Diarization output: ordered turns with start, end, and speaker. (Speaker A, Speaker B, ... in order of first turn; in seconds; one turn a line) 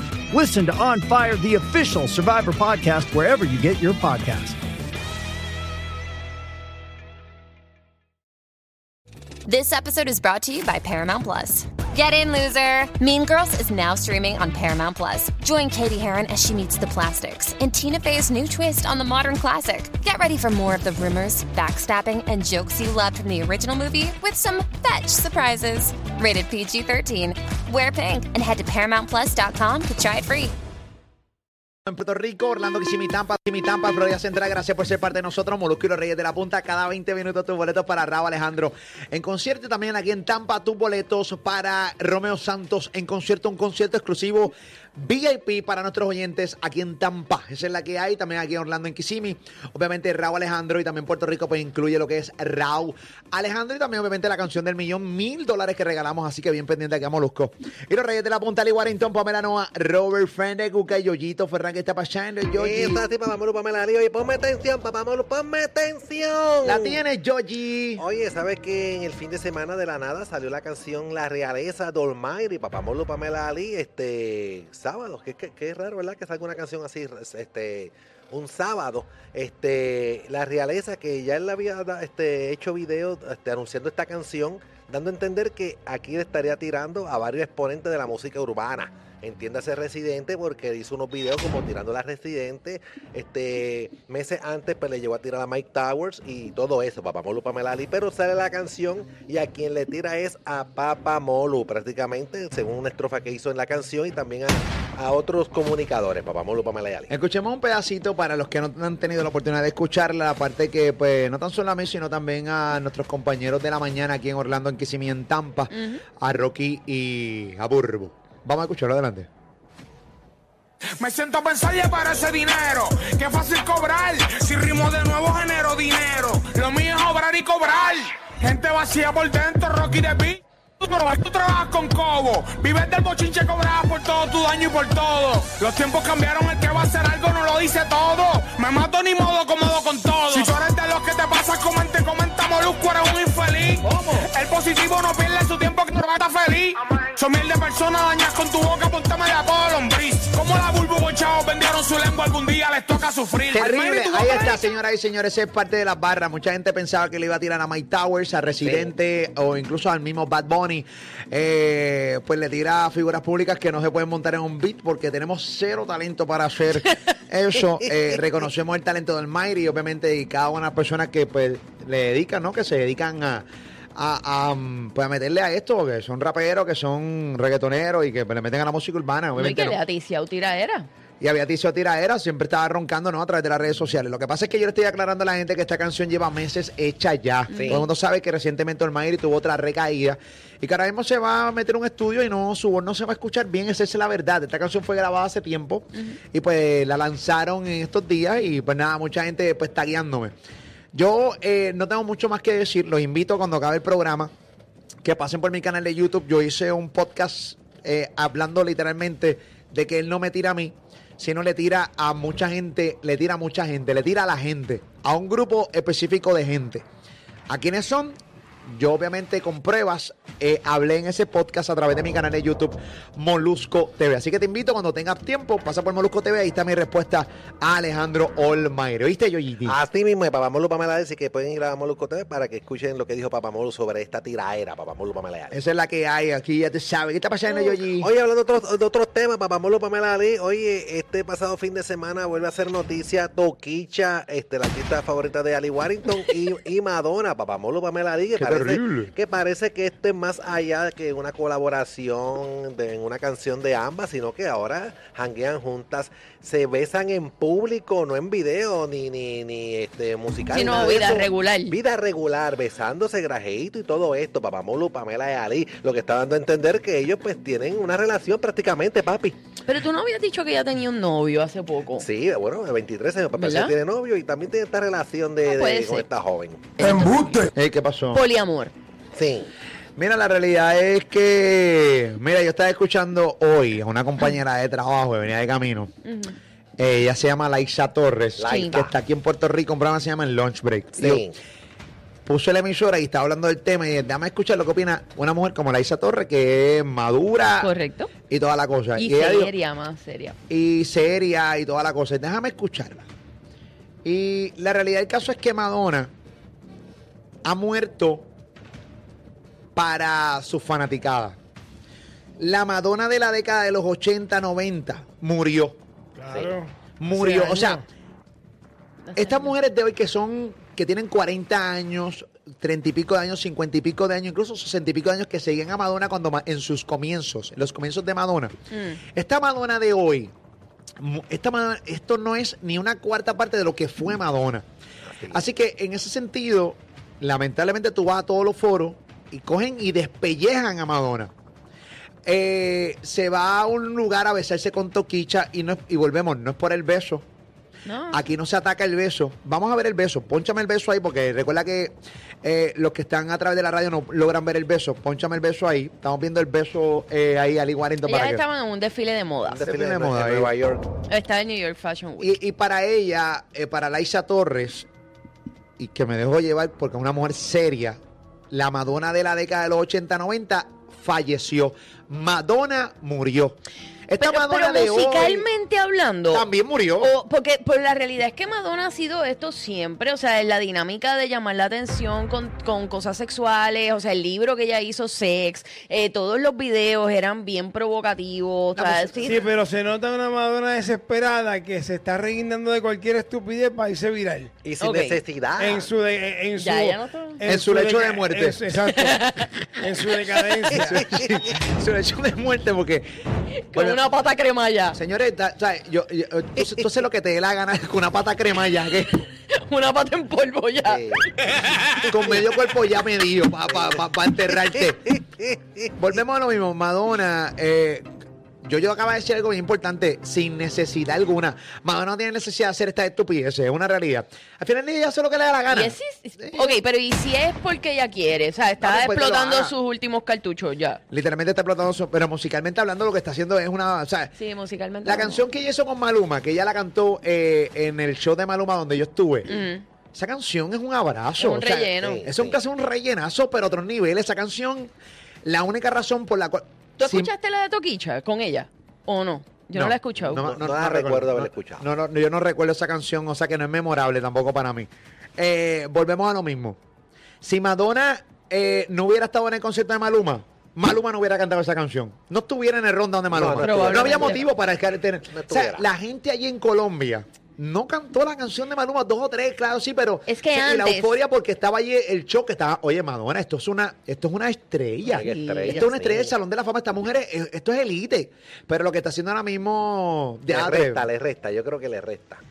Speaker A: 0.3-4.6
Speaker B: 9.5-30.5
Speaker C: 31.9-63.0
Speaker D: 62.5-67.0
Speaker C: 66.6-68.0
Speaker D: 68.0-107.1
Speaker C: 107.1-119.3
Speaker E: 115.7-116.0
Speaker F: 121.0-154.6
Speaker C: 153.5-179.8
Speaker D: 158.6-158.9
Speaker E: 179.3-180.9
Speaker C: 181.2-200.3
Speaker E: 187.5-187.8
Speaker D: 187.6-187.8
Speaker C: 200.9-204.3
Speaker C: 205.0-216.8
Speaker C: 217.5-229.8
Speaker D: 229.7-235.6
Speaker C: 235.5-238.1
Speaker D: 237.5-269.4
Speaker C: 248.3-249.1
Speaker E: 260.5-261.8
Speaker E: 269.6-272.1
Speaker D: 272.0-276.7
Speaker E: 273.4-273.7
Speaker E: 275.5-276.0
Speaker E: 276.8-277.2
Speaker C: 277.5-278.2
Speaker E: 278.1-278.7
Speaker D: 279.1-279.5
Speaker C: 279.9-285.9
Speaker E: 286.1-286.3
Speaker C: 286.8-291.2
Speaker D: 288.4-288.9
Speaker E: 288.4-288.7
Speaker D: 291.0-291.4
Speaker C: 292.2-297.7
Speaker E: 297.6-298.1
Speaker C: 298.3-299.5
Speaker E: 299.0-300.4
Speaker C: 300.5-303.1
Speaker C: 304.0-306.1
Speaker C: 307.4-308.3
Speaker C: 309.7-311.4
Speaker C: 312.4-315.8
Speaker G: 316.1-317.8
Speaker C: 317.0-317.8
Speaker E: 319.1-319.5
Speaker C: 319.1-328.5
Speaker E: 328.7-329.0
Speaker C: 329.1-330.3
Speaker C: 331.0-334.6
Speaker D: 335.1-335.4
Speaker C: 335.3-341.3
Speaker C: 342.2-347.2
Speaker E: 347.9-348.2
Speaker C: 348.1-358.4
Speaker E: 358.0-359.6
Speaker D: 359.5-360.9
Speaker C: 359.6-360.5
Speaker E: 361.1-362.4
Speaker C: 362.2-364.9
Speaker C: 365.8-368.0
Speaker C: 368.5-375.5
Speaker E: 374.2-376.4
Speaker C: 376.3-377.1
Speaker E: 377.0-389.4
Speaker C: 388.7-389.4
Speaker G: 389.2-394.5
Speaker D: 394.6-395.9
Speaker E: 394.8-395.2
Speaker G: 395.6-399.3
Speaker E: 396.6-397.4
Speaker C: 397.4-398.6
Speaker E: 398.8-399.8
Speaker G: 399.8-401.0
Speaker D: 400.7-401.4
Speaker C: 400.7-403.1
Speaker E: 403.7-405.0
Speaker C: 403.7-404.0
Speaker C: 404.9-409.2
Speaker E: 409.5-411.6
Speaker D: 410.8-411.5
Speaker C: 412.0-415.2
Speaker D: 415.1-415.9
Speaker C: 416.0-418.1
Speaker C: 418.6-426.8
Speaker E: 425.7-431.0
Speaker C: 428.8-429.7
Speaker C: 431.1-434.3
Speaker E: 434.3-435.4
Speaker C: 435.0-439.6
Speaker E: 439.5-439.8
Speaker C: 440.1-444.9
Speaker E: 441.4-442.3
Speaker D: 442.0-442.6
Speaker C: 445.4-447.3
Speaker E: 447.0-450.4
Speaker C: 449.7-456.8
Speaker D: 450.3-451.9
Speaker C: 457.4-481.1
Speaker D: 463.3-464.4
Speaker E: 463.6-464.4
Speaker D: 465.3-465.8
Speaker E: 470.3-471.2
Speaker D: 475.1-476.3
Speaker E: 475.1-475.9
Speaker D: 480.5-482.4